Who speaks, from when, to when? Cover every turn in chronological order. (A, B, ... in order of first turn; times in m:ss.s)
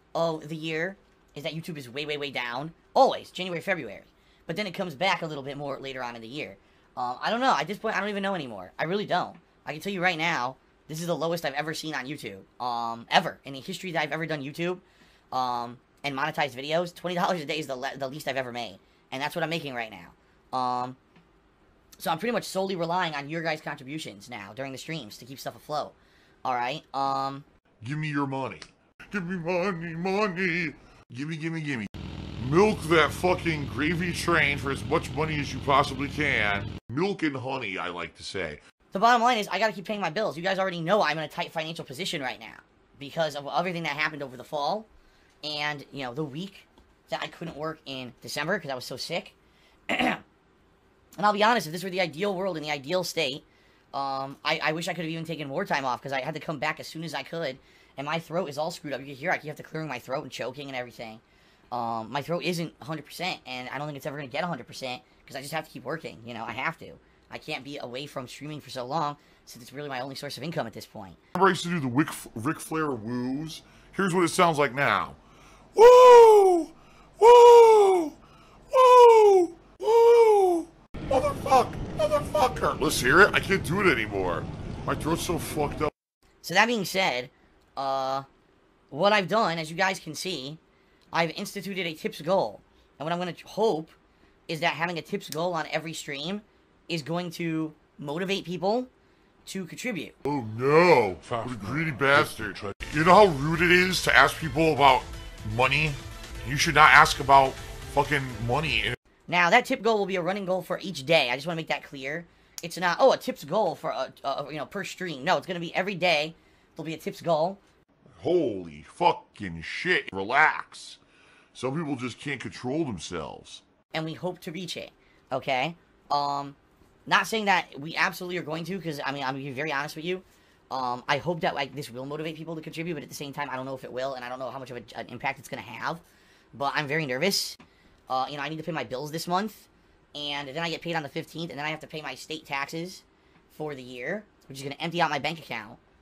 0:00.1-0:21.0 A
0:22.0-0:27.4 A
0:27.8-0:38.6 B
0:38.9-0:44.9 A
0:45.4-0:49.3 A
0:49.9-0:50.2 A
0:51.2-1:11.2 A
1:11.4-1:15.2 B
1:15.7-1:18.2 B
1:18.7-1:25.9 B
1:26.4-1:28.2 A
1:28.9-1:30.6 A
1:31.1-1:33.9 A
1:34.5-1:38.9 A
1:39.4-1:40.2 A
1:40.2-1:49.0 B
1:49.3-1:57.6 A
1:58.1-2:01.0 B
2:01.5-2:03.6 B
2:03.9-2:17.6 A
2:18.1-2:25.8 A